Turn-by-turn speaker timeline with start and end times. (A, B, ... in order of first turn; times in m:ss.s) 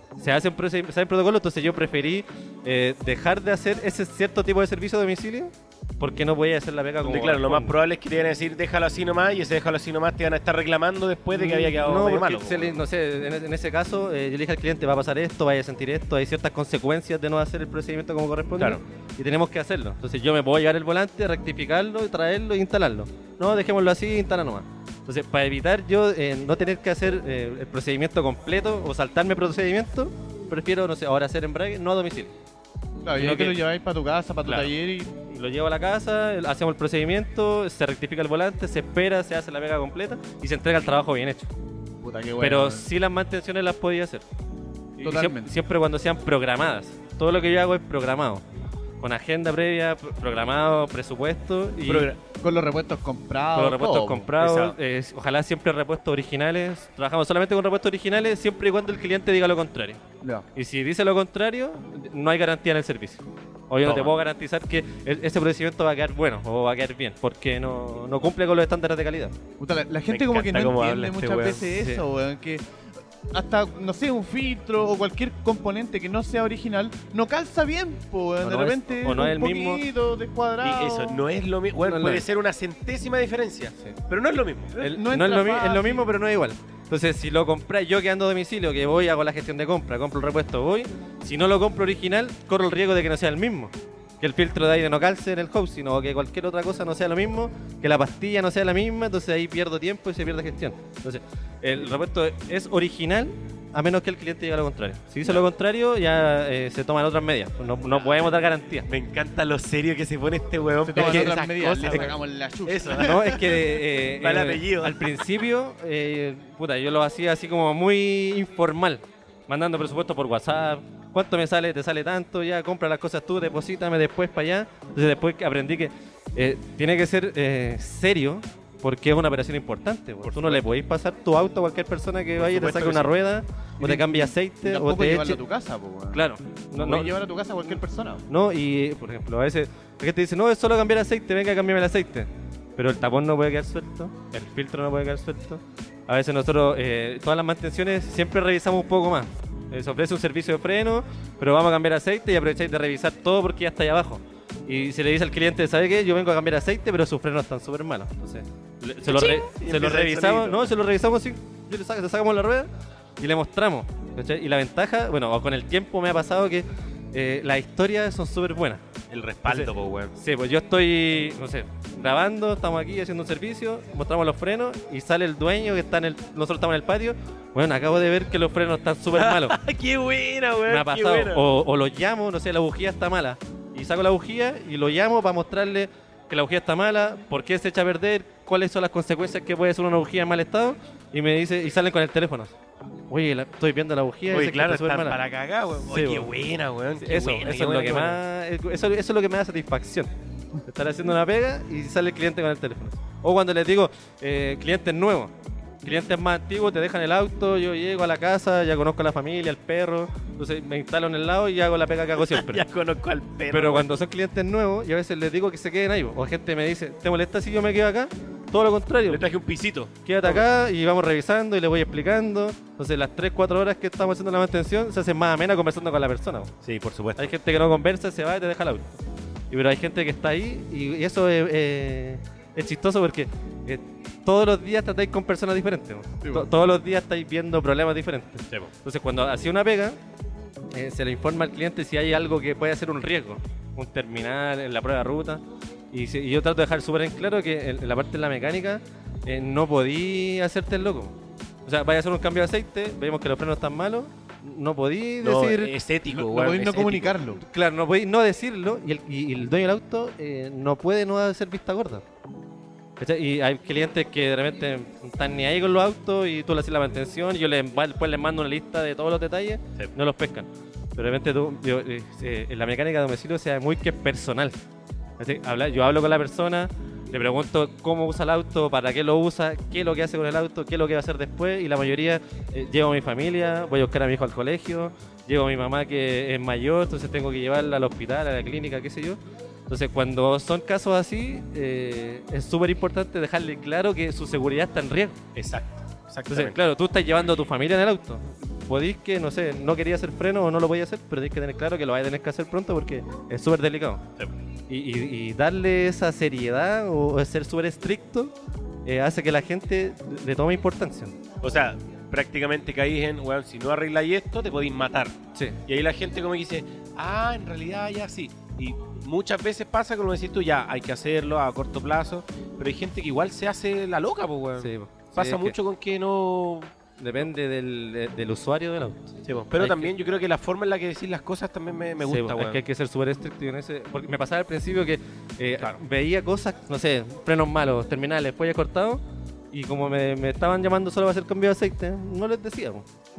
0:00.2-0:07.8 A
0:07.0-0:12.8 B
0:11.3-0:32.3 A
0:33.0-0:35.1 C
0:33.2-0:33.6 A
0:34.4-0:34.7 A
0:35.2-0:41.5 A
0:42.0-0:42.9 C
0:42.4-0:44.2 A
0:45.0-0:48.4 A
0:45.0-0:45.5 C
0:49.0-0:52.1 A
0:51.9-0:52.2 B
0:52.3-0:54.3 C
0:53.5-1:00.0 A
0:54.4-0:54.8 B
1:00.2-1:00.5 C
1:00.5-1:09.3 A
1:03.8-1:04.1 B
1:09.6-1:12.6 C
1:10.1-1:11.7 B
1:11.8-1:12.0 A
1:13.3-1:21.2 C
1:18.4-1:19.8 A
1:20.6-1:24.8 B
1:21.8-1:22.2 A
1:24.8-1:26.1 C
1:24.8-1:48.9 A
1:48.0-1:48.3 B
1:48.9-1:55.0 B
1:50.8-1:53.2 C
1:51.0-1:52.1 A
1:53.0-2:15.4 A
2:10.2-2:10.6 B
2:12.4-2:13.1 B
2:13.8-2:16.2 C
2:16.1-2:17.1 A
2:16.8-2:18.2 C
2:18.3-2:42.7 A
2:39.1-2:40.7 B
2:43.2-2:48.8 A
2:49.1-2:50.1 B
2:49.5-2:59.6 A
2:59.2-3:01.4 B
3:00.7-3:12.5 A
3:13.1-3:15.2 A
3:14.3-3:18.2 B
3:15.9-3:16.3 A
3:17.0-3:20.1 A
3:20.6-3:32.6 A
3:32.2-3:34.0 B
3:33.5-3:39.2 A
3:39.1-3:40.5 B
3:40.0-3:46.5 A
3:46.6-3:47.3 B
3:47.2-3:49.0 A
3:49.5-4:00.0 A
4:00.7-4:15.7 A
4:15.2-4:17.2 B
4:16.1-4:17.4 C
4:17.4-4:22.0 A
4:23.0-4:34.6 A
4:35.2-4:55.2 A
4:55.4-4:56.6 B
4:56.3-5:04.0 A
5:04.7-5:08.4 A
5:08.9-5:11.1 A
5:11.4-5:26.7 B
5:24.6-5:25.6 A
5:27.0-5:29.9 A
5:29.2-5:32.6 B
5:32.0-5:42.8 A